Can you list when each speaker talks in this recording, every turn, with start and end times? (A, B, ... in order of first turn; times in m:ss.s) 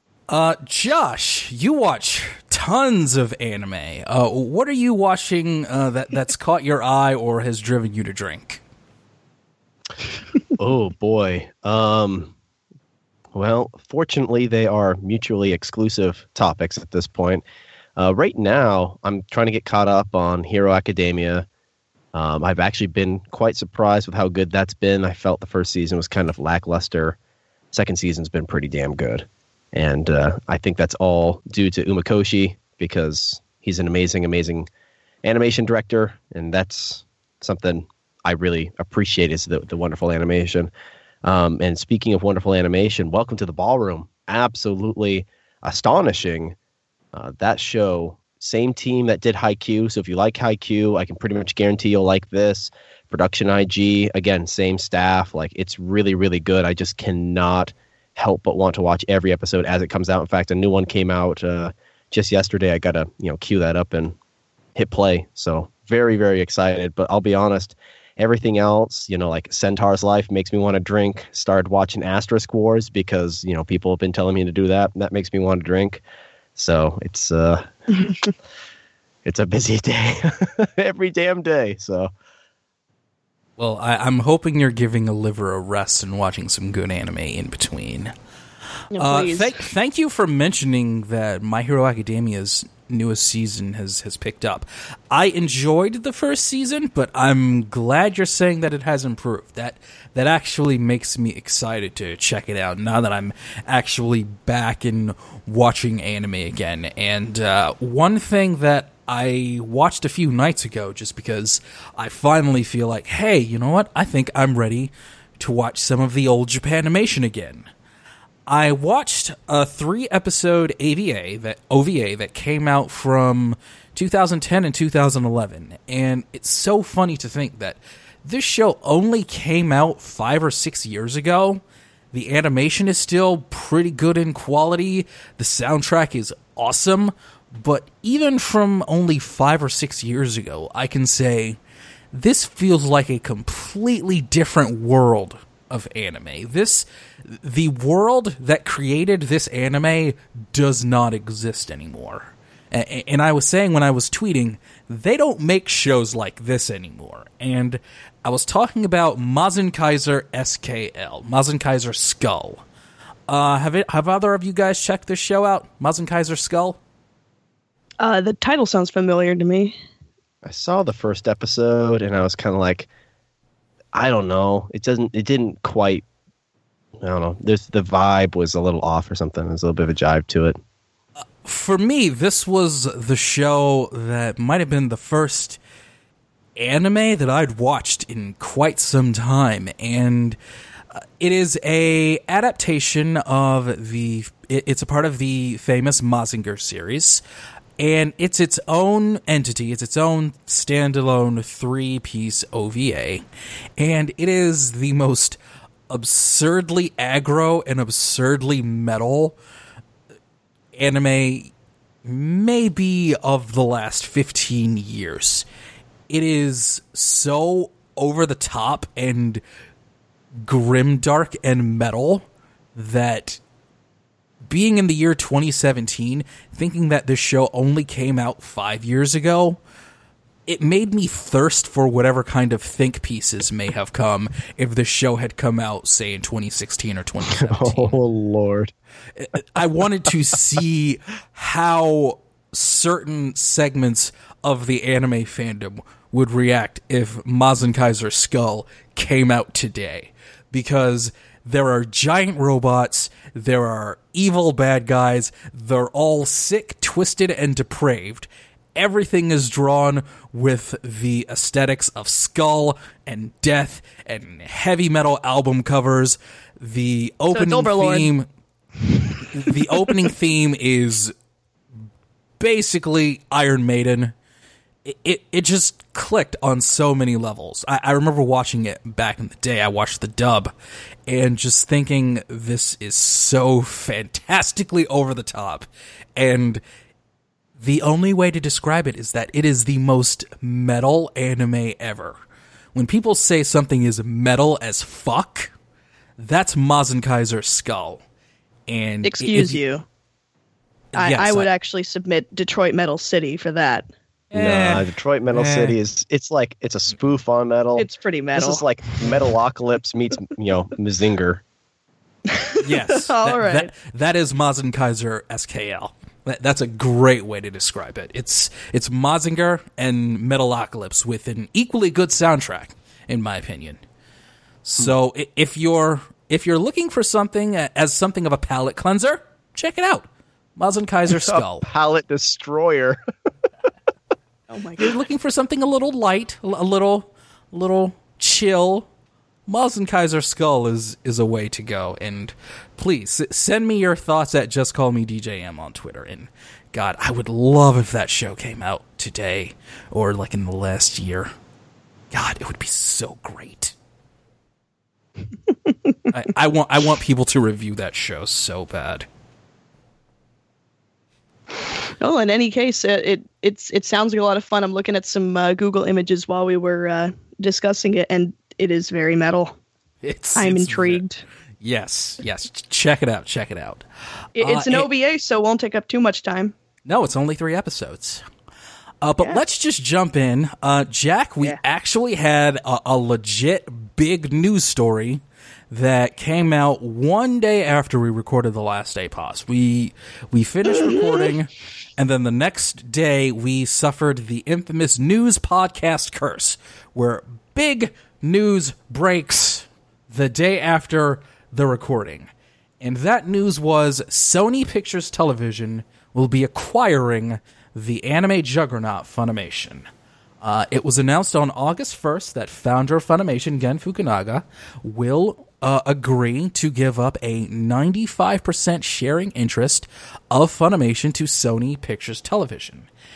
0:00.3-0:08.6 A
0:10.6-0:12.3 B
0:13.3-0:17.4 B
0:18.0-0:21.4 B
0:22.1-0:27.2 B
0:27.7-0:34.7 B
0:35.2-0:40.7 B
0:41.2-0:46.6 B
0:47.1-1:04.1 B
1:04.7-1:16.0 B
1:16.6-1:17.7 B
1:19.2-1:22.1 B
1:23.6-1:28.1 A
1:28.9-1:29.5 C
1:29.0-1:57.7 A
1:58.5-2:11.6 A
2:12.1-2:21.6 A
2:22.1-2:42.6 A
2:43.3-2:46.8 A
2:48.0-2:49.8 C
2:50.4-2:52.9 B
2:53.9-2:56.0 B
2:57.0-3:00.6 B
3:01.4-3:05.6 A
3:06.6-3:10.4 A
3:11.2-3:17.2 A
3:17.8-3:23.2 A
3:23.8-3:25.4 A
3:25.9-3:29.4 A
3:30.7-3:31.5 A
3:32.0-3:35.4 A
3:36.1-3:39.4 A
3:40.4-3:43.4 A
3:44.5-3:49.6 A
3:50.5-3:58.0 A
3:57.3-3:58.7 B
3:59.2-4:28.3 A
4:27.3-4:28.1 C
4:29.3-4:31.1 A
4:29.3-4:29.9 C
4:32.4-4:34.1 A
4:34.8-4:40.5 A
4:41.1-4:46.6 A
4:47.6-4:52.2 A
4:52.7-4:55.5 A
4:56.2-4:58.0 A
4:58.7-4:59.6 A
4:59.0-4:59.8 C
5:00.9-5:01.5 A
5:01.0-5:03.8 C
5:04.3-5:05.8 A
5:04.3-5:11.4 B
5:07.8-5:08.6 C
5:12.3-5:13.7 C
5:12.5-5:23.8 A
5:24.6-5:31.7 A
5:31.1-5:33.0 B
5:34.5-5:34.9 C
5:34.8-5:38.9 A
5:39.5-5:51.3 A
5:52.1-5:53.7 A
5:56.1-5:59.1 A
6:02.0-6:09.6 C
6:10.0-6:11.0 A
6:10.4-6:11.2 C
6:11.6-6:13.8 A
6:14.4-6:16.5 C
6:14.4-6:14.9 A
6:16.8-6:18.2 A
6:19.0-6:42.3 A
6:30.9-6:31.3 C
6:42.8-6:49.9 A
6:50.4-7:02.9 A